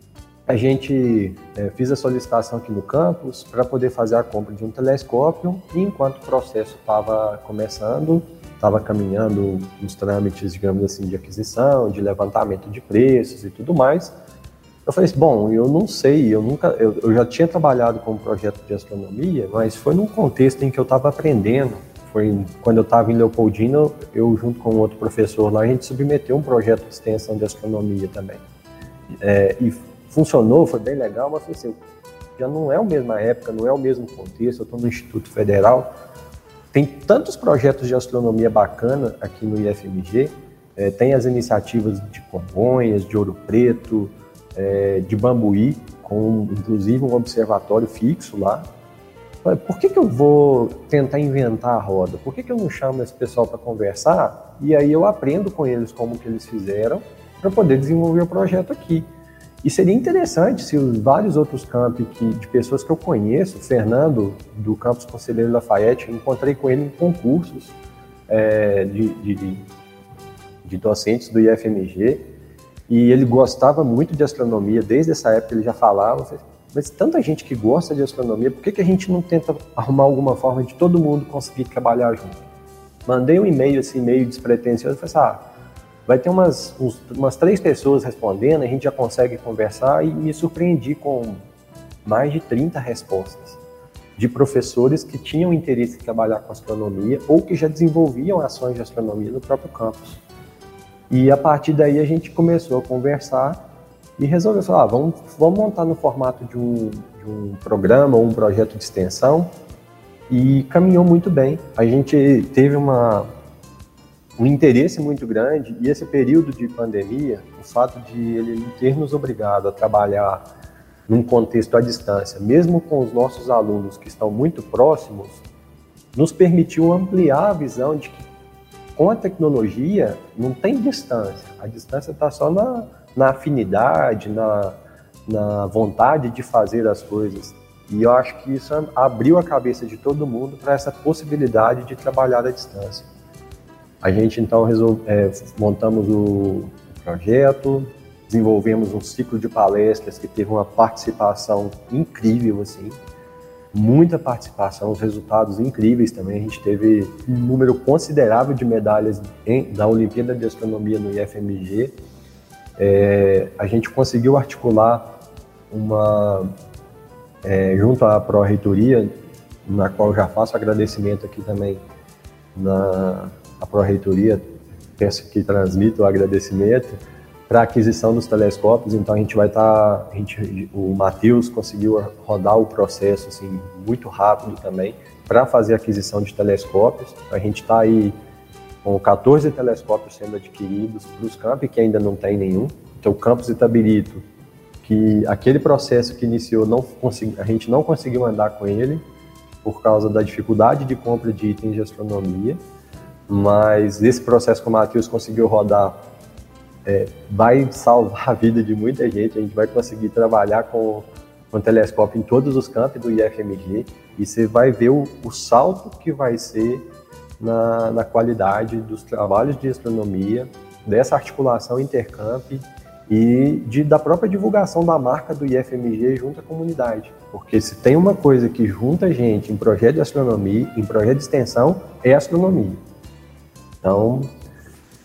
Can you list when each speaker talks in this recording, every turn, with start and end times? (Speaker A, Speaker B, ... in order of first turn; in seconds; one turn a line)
Speaker A: 0.5-14.1
Speaker A: 14.9-28.4
Speaker A: 29.2-31.8
Speaker A: 32.4-35.9
Speaker A: 36.7-48.7
Speaker A: 49.4-59.1
Speaker A: 59.6-67.7
Speaker A: 68.3-69.6
Speaker A: 70.7-72.2
Speaker A: 72.9-82.4
Speaker A: 83.1-85.4
Speaker A: 86.1-91.4
Speaker A: 92.0-93.6
Speaker A: 94.2-100.2
Speaker A: 101.1-103.6
Speaker A: 104.2-109.5
Speaker A: 110.3-113.3
Speaker A: 114.4-120.5
Speaker A: 121.1-125.4
Speaker A: 126.2-128.3
Speaker A: 129.0-143.1
Speaker A: 144.0-153.0
Speaker A: 153.7-161.9
Speaker A: 162.8-165.1
Speaker A: 165.7-166.5
Speaker A: 167.4-169.1
Speaker A: 169.7-171.8
Speaker A: 172.6-174.5
Speaker A: 175.0-177.0
Speaker A: 177.5-188.2
Speaker A: 188.8-194.2
Speaker A: 194.8-199.0
Speaker A: 199.6-202.6
Speaker A: 203.3-206.0
Speaker A: 206.9-216.8
Speaker A: 217.4-232.8
Speaker A: 233.8-234.3